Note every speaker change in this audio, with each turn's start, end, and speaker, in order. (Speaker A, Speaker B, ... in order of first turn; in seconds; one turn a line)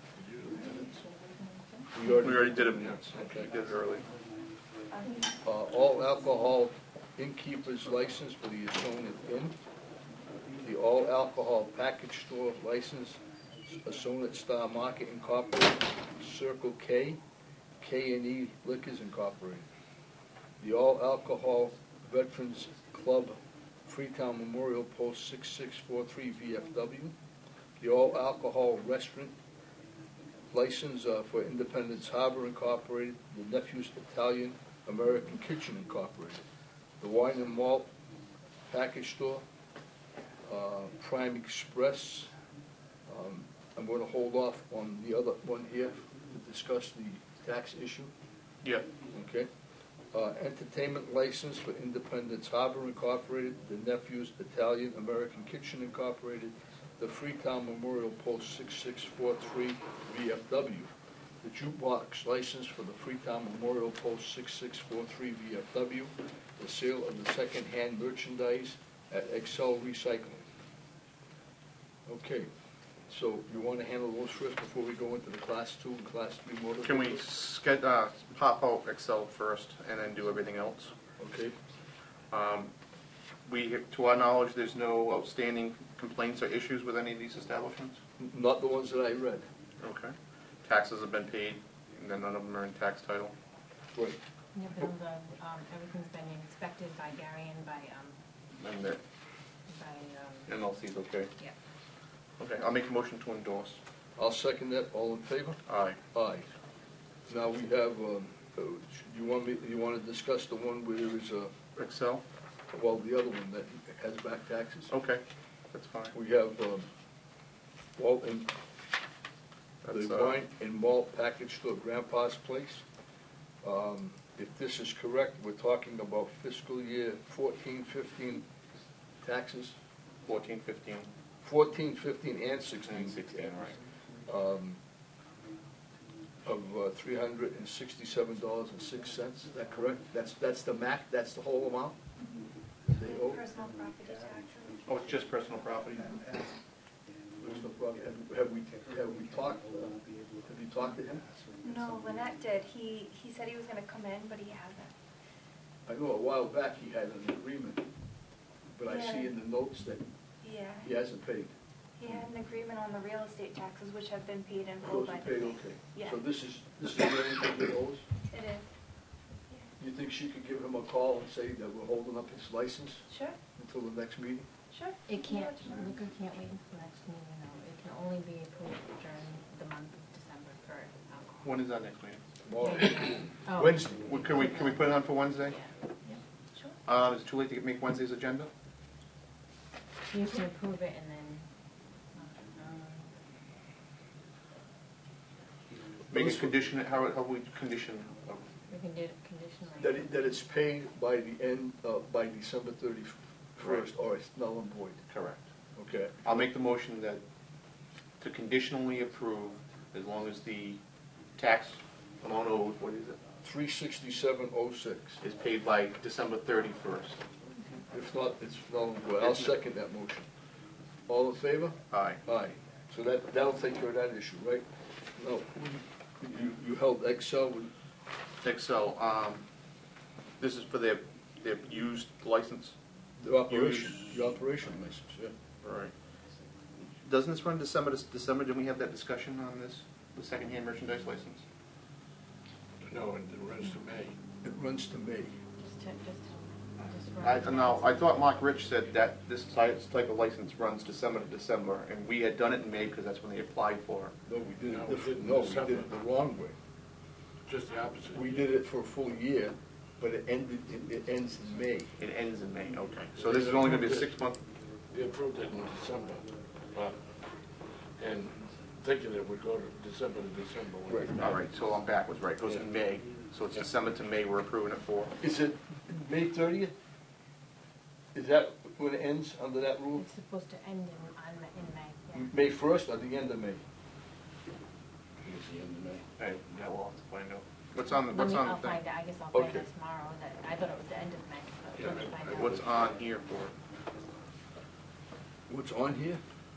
Speaker A: 0.2-0.8
Speaker B: 0.5-1.8
Speaker C: 1.9-3.5
Speaker D: 2.1-4.1
Speaker A: 2.8-3.5
Speaker E: 4.9-5.3
Speaker C: 5.4-9.6
Speaker C: 10.6-17.2
Speaker C: 17.8-19.7
Speaker C: 20.6-27.1
Speaker C: 27.8-29.4
Speaker C: 30.5-36.4
Speaker C: 37.0-37.9
Speaker C: 38.7-39.4
Speaker C: 40.4-42.3
Speaker C: 43.1-48.1
Speaker D: 48.6-48.9
Speaker C: 49.1-49.5
Speaker C: 50.1-60.9
Speaker C: 61.4-70.5
Speaker C: 72.1-72.5
Speaker C: 73.1-77.2
Speaker D: 76.8-80.9
Speaker C: 81.2-81.5
Speaker D: 82.3-82.7
Speaker D: 83.5-88.0
Speaker C: 88.2-89.5
Speaker D: 89.8-93.3
Speaker B: 94.5-98.2
Speaker D: 98.5-99.0
Speaker B: 99.7-100.6
Speaker D: 100.5-101.3
Speaker D: 102.4-103.8
Speaker C: 104.2-106.5
Speaker D: 105.7-106.0
Speaker C: 107.3-111.5
Speaker D: 111.8-112.2
Speaker C: 112.7-114.9
Speaker D: 114.9-116.1
Speaker C: 116.1-116.9
Speaker C: 118.0-118.5
Speaker D: 119.8-120.4
Speaker C: 119.9-122.8
Speaker C: 123.6-128.4
Speaker C: 129.2-129.8
Speaker D: 130.3-131.1
Speaker C: 131.4-134.8
Speaker D: 132.9-133.8
Speaker C: 136.4-142.0
Speaker E: 142.2-144.9
Speaker C: 142.9-143.4
Speaker D: 144.9-146.4
Speaker C: 147.4-151.3
Speaker E: 151.6-154.9
Speaker C: 155.9-157.9
Speaker C: 158.7-160.1
Speaker E: 158.9-159.3
Speaker E: 160.4-160.9
Speaker C: 160.8-161.5
Speaker E: 162.0-166.2
Speaker C: 164.8-168.1
Speaker E: 168.3-168.7
Speaker C: 169.8-174.5
Speaker E: 173.1-173.4
Speaker E: 174.7-175.9
Speaker B: 175.1-181.6
Speaker D: 181.4-182.2
Speaker C: 182.4-184.4
Speaker B: 182.6-186.2
Speaker D: 184.1-185.6
Speaker D: 186.9-188.5
Speaker B: 190.1-191.5
Speaker B: 192.2-193.1
Speaker C: 196.1-196.5
Speaker D: 196.1-198.5
Speaker B: 198.7-200.3
Speaker C: 199.8-205.0
Speaker D: 203.6-203.9
Speaker D: 205.1-205.4
Speaker C: 205.8-206.5
Speaker D: 206.2-207.2
Speaker D: 208.2-210.8
Speaker D: 211.4-213.2
Speaker C: 213.4-215.2
Speaker D: 215.2-217.2
Speaker C: 217.9-220.3
Speaker D: 219.2-219.6
Speaker C: 221.1-224.7
Speaker D: 221.9-222.2
Speaker C: 225.2-227.7
Speaker D: 228.4-229.4
Speaker D: 230.4-232.8
Speaker C: 233.2-235.3
Speaker D: 233.5-234.1
Speaker D: 235.6-235.9
Speaker D: 237.0-241.4
Speaker A: 242.8-244.2
Speaker C: 244.4-245.3
Speaker B: 245.6-248.0
Speaker D: 247.2-254.1
Speaker C: 254.3-256.6
Speaker A: 254.7-255.9
Speaker A: 257.5-258.4
Speaker C: 258.1-261.9
Speaker D: 262.0-264.4
Speaker A: 263.2-264.2
Speaker A: 264.9-267.1
Speaker A: 268.0-271.4
Speaker C: 270.9-271.2
Speaker D: 271.2-275.1
Speaker A: 272.4-272.7
Speaker C: 275.2-276.7
Speaker C: 278.1-280.1
Speaker B: 280.0-282.3
Speaker C: 282.1-283.6
Speaker A: 285.3-286.0
Speaker C: 285.4-285.9
Speaker D: 286.2-288.8
Speaker B: 287.9-292.7
Speaker C: 289.3-289.6
Speaker A: 291.8-293.0
Speaker D: 292.3-293.5
Speaker C: 295.5-296.2